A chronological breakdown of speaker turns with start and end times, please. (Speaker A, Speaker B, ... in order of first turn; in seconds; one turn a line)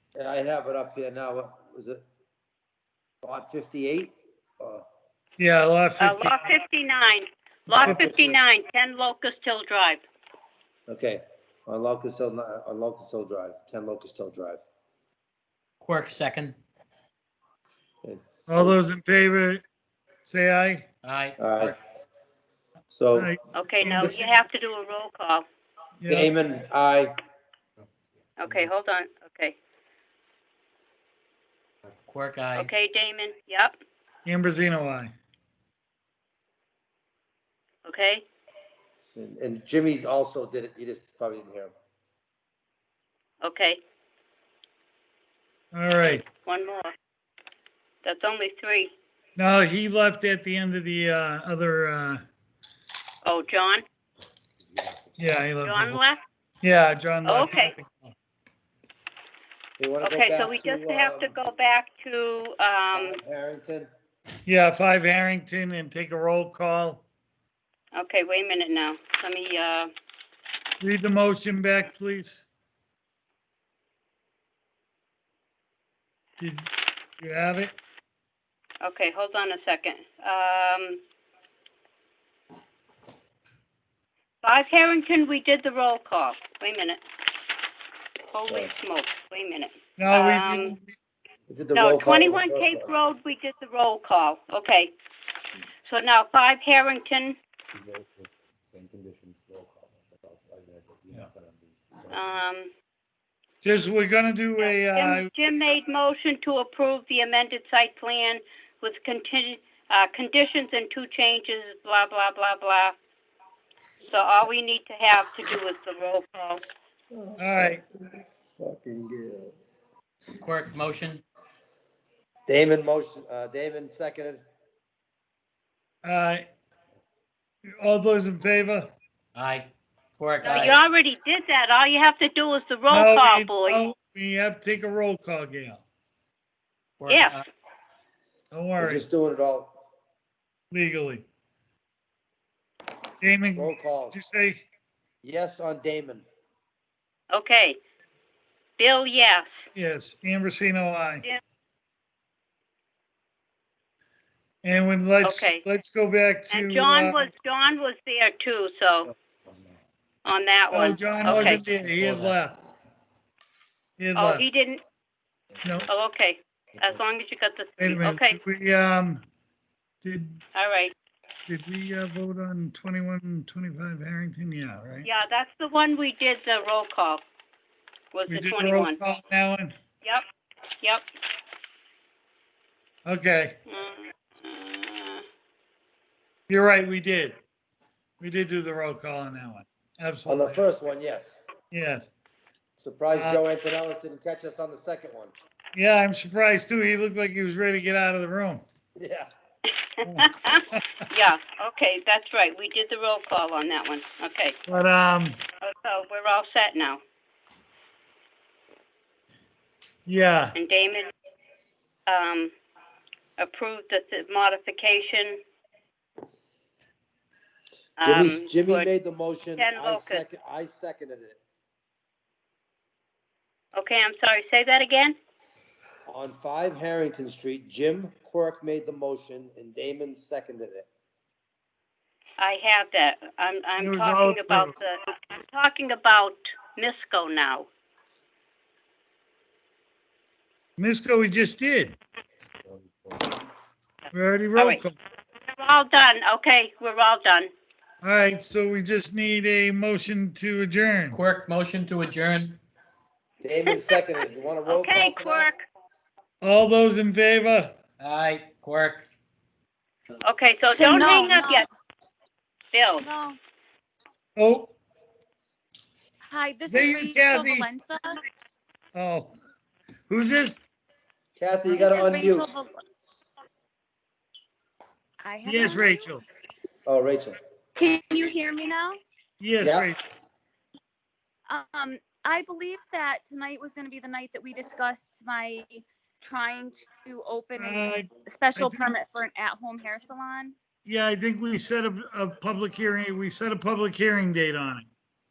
Speaker A: 0.2-2.0
Speaker A: 3.2-4.8
Speaker B: 5.4-6.4
Speaker C: 6.0-10.0
Speaker A: 7.7-8.4
Speaker A: 10.9-14.6
Speaker D: 15.8-16.6
Speaker A: 18.0-18.7
Speaker B: 18.5-19.6
Speaker B: 20.2-20.9
Speaker D: 21.0-21.8
Speaker A: 21.4-21.8
Speaker A: 22.9-23.3
Speaker B: 23.1-24.2
Speaker C: 23.5-25.4
Speaker A: 23.9-24.2
Speaker B: 26.0-26.3
Speaker A: 26.1-27.1
Speaker C: 28.4-29.5
Speaker D: 32.0-32.7
Speaker C: 32.5-33.8
Speaker B: 34.2-35.1
Speaker C: 37.8-38.2
Speaker A: 39.1-41.7
Speaker C: 43.4-43.8
Speaker B: 45.7-46.3
Speaker C: 46.0-46.9
Speaker C: 48.0-48.9
Speaker B: 49.4-52.2
Speaker C: 53.2-53.8
Speaker B: 55.2-56.0
Speaker C: 55.6-56.2
Speaker B: 56.6-58.1
Speaker C: 57.2-57.7
Speaker A: 59.8-61.3
Speaker C: 60.0-63.2
Speaker A: 62.9-63.9
Speaker B: 64.5-67.0
Speaker C: 67.9-69.9
Speaker B: 70.8-72.5
Speaker B: 76.4-77.8
Speaker C: 78.8-81.0
Speaker C: 84.4-87.0
Speaker C: 88.3-90.8
Speaker B: 90.0-90.9
Speaker A: 91.5-92.9
Speaker C: 91.7-94.9
Speaker C: 95.9-97.4
Speaker E: 97.8-102.4
Speaker C: 102.1-102.7
Speaker B: 103.6-105.3
Speaker C: 104.6-113.0
Speaker C: 114.0-116.6
Speaker A: 117.1-117.8
Speaker B: 117.4-117.8
Speaker A: 118.6-119.5
Speaker D: 120.4-121.2
Speaker A: 122.5-124.4
Speaker B: 126.0-126.5
Speaker B: 127.8-128.9
Speaker D: 129.3-130.8
Speaker C: 130.4-133.8
Speaker B: 132.9-135.8
Speaker D: 137.0-137.4
Speaker C: 137.1-137.4
Speaker B: 138.5-139.1
Speaker A: 138.8-139.7
Speaker B: 140.7-141.2
Speaker B: 143.2-144.6
Speaker A: 143.6-144.2
Speaker A: 145.2-146.2
Speaker C: 147.3-147.8
Speaker C: 148.8-149.4
Speaker B: 149.7-151.2
Speaker B: 154.6-157.2
Speaker C: 155.2-155.6
Speaker C: 156.5-159.1
Speaker E: 159.5-159.7
Speaker C: 160.2-161.6
Speaker B: 160.7-162.6
Speaker E: 161.2-162.3
Speaker B: 164.0-164.4
Speaker C: 164.2-164.8
Speaker C: 165.9-168.4
Speaker B: 167.8-169.2
Speaker B: 170.0-170.4
Speaker C: 170.5-170.9
Speaker B: 171.5-175.1
Speaker C: 175.0-177.2
Speaker C: 178.1-179.0
Speaker B: 178.3-179.7
Speaker B: 183.0-183.6
Speaker C: 183.7-185.2
Speaker B: 186.5-187.4
Speaker B: 188.2-190.6
Speaker A: 190.2-191.3
Speaker B: 191.7-192.1
Speaker A: 192.8-195.3
Speaker B: 193.1-193.4
Speaker B: 195.7-198.6
Speaker A: 199.0-199.3
Speaker B: 200.0-200.8
Speaker C: 200.2-204.6
Speaker B: 204.7-205.4
Speaker C: 205.6-207.0
Speaker B: 210.1-210.5
Speaker C: 210.5-211.1
Speaker C: 212.1-212.5
Speaker C: 213.4-215.4
Speaker C: 218.0-218.9
Speaker A: 218.0-221.4
Speaker C: 219.6-220.2
Speaker C: 223.7-225.1
Speaker A: 226.1-230.8
Speaker C: 232.4-237.7
Speaker B: 233.8-234.7
Speaker B: 240.8-242.0
Speaker B: 244.1-245.0
Speaker C: 245.5-247.5
Speaker B: 248.0-251.2
Speaker D: 251.1-252.6
Speaker A: 253.4-255.5
Speaker C: 254.7-255.6
Speaker B: 256.4-257.8
Speaker D: 258.0-259.1
Speaker C: 260.2-261.6
Speaker F: 260.7-261.7
Speaker C: 262.7-263.1
Speaker F: 263.0-263.4
Speaker B: 264.4-264.7
Speaker F: 266.2-268.2
Speaker B: 266.7-267.7
Speaker B: 268.9-269.3
Speaker B: 270.1-270.6
Speaker A: 271.4-272.5
Speaker F: 271.6-272.7
Speaker F: 275.2-275.9
Speaker B: 275.4-276.2
Speaker A: 276.9-277.4
Speaker F: 277.7-279.0
Speaker B: 279.4-280.0
Speaker A: 279.6-279.9
Speaker F: 281.5-290.5
Speaker B: 287.6-288.9
Speaker B: 290.8-294.9